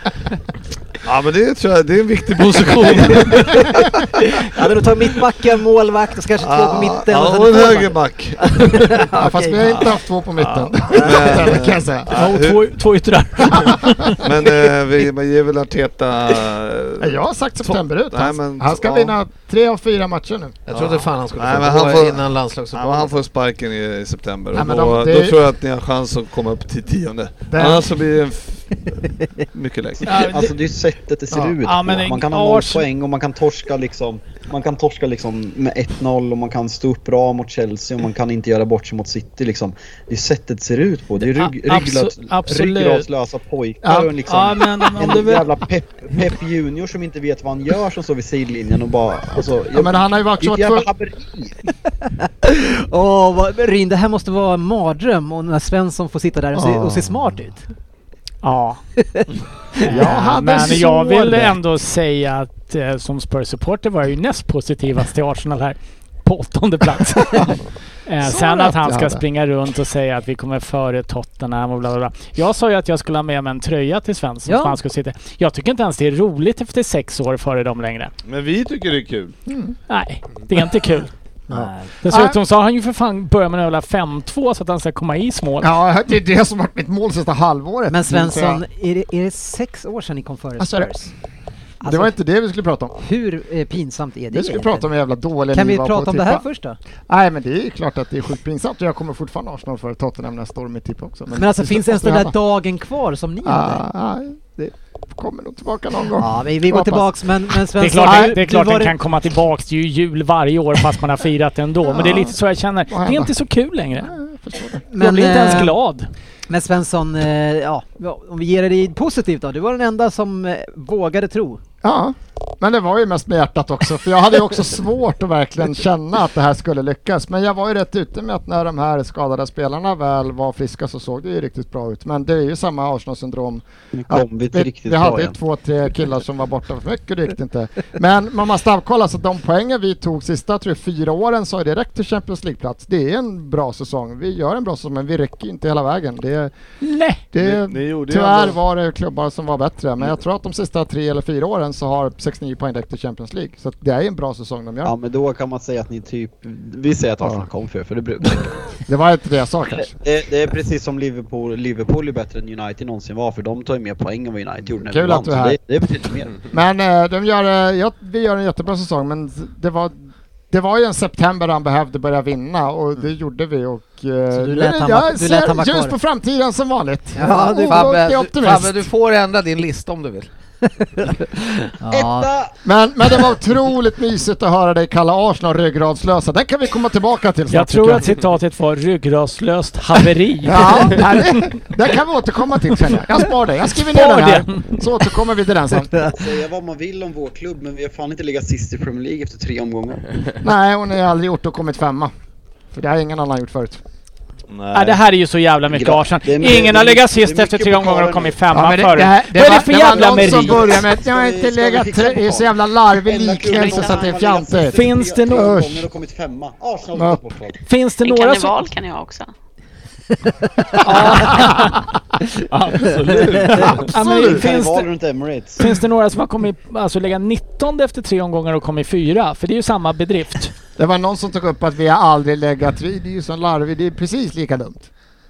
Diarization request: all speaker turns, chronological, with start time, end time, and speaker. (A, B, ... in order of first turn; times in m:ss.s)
0:01.0-0:04.4 A
0:04.5-0:09.7 B
0:06.4-0:08.9 A
0:09.2-0:12.1 C
0:10.4-0:12.7 A
0:12.1-0:14.7 D
0:14.1-0:19.1 A
0:17.0-0:20.6 C
0:20.6-0:23.2 E
0:20.7-0:30.2 A
0:24.5-0:25.4 C
0:27.5-0:27.9 C
0:30.0-0:30.5 D
0:30.1-0:51.6 F
0:31.6-0:32.8 D
0:41.3-0:43.0 D
0:43.8-0:44.1 C
0:44.2-0:45.5 D
0:49.7-0:50.9 C
0:52.2-0:57.7 B
0:56.6-0:57.0 C
0:58.4-0:58.8 D
0:59.8-1:18.1 D
0:59.8-1:01.6 C
1:08.2-1:09.2 C
1:14.4-1:14.8 B
1:18.2-1:19.3 A
1:19.5-1:19.7 C
1:19.9-1:21.1 D
1:21.5-1:21.9 B
1:22.0-1:25.7 D
1:22.1-1:22.4 C
1:25.6-1:28.6 C
1:27.9-1:31.1 B
1:30.6-1:30.9 C
1:31.8-1:32.1 B
1:31.8-1:33.0 C
1:33.0-1:34.8 B
1:34.3-1:36.4 C
1:35.5-1:36.8 B
1:37.1-1:42.3 C
1:41.3-1:43.8 B
1:43.4-1:47.1 C
1:46.2-1:48.9 B
1:47.8-1:54.1 D
1:48.0-1:48.4 C
1:51.8-1:52.4 C
1:52.9-1:53.3 C
1:54.0-1:54.8 C
1:54.9-1:55.8 B
1:55.0-1:56.1 D
1:56.5-2:01.6 B
2:01.8-2:26.5 C
2:13.9-2:15.3 F
2:26.8-2:27.3 D
2:27.3-2:34.9 C
2:27.4-2:28.6 A
2:34.8-2:38.8 F
2:37.2-2:37.5 C
2:38.9-2:39.9 C
2:39.8-2:46.4 F
2:44.8-2:45.6 C
2:46.5-2:50.0 C
2:50.5-2:58.9 C
2:54.3-2:56.0 B
2:57.1-2:57.6 B
2:57.2-3:00.3 E
3:01.0-3:01.4 E
3:01.8-3:02.3 B
3:01.9-3:02.5 F
3:02.6-3:08.1 C
3:07.5-3:11.6 D
3:10.4-3:15.9 C
3:13.8-3:14.8 D
3:16.1-3:20.2 F
3:20.4-3:22.1 C
3:22.7-3:23.8 C
3:24.5-3:25.0 A
3:24.7-3:30.8 D
3:25.7-3:28.4 F
3:28.5-3:35.9 C
3:29.5-3:37.6 F
3:33.4-3:34.1 G
3:34.7-3:35.6 D
3:36.9-3:37.2 C
3:37.6-3:38.6 D
3:38.0-3:39.3 G
3:40.8-3:41.4 B
3:40.8-3:41.8 D
3:41.1-3:41.8 C
3:42.4-3:43.9 A
3:43.6-3:44.4 C
3:43.9-3:44.9 D
3:43.9-3:45.6 F
3:45.6-3:50.5 D
3:50.8-3:54.9 C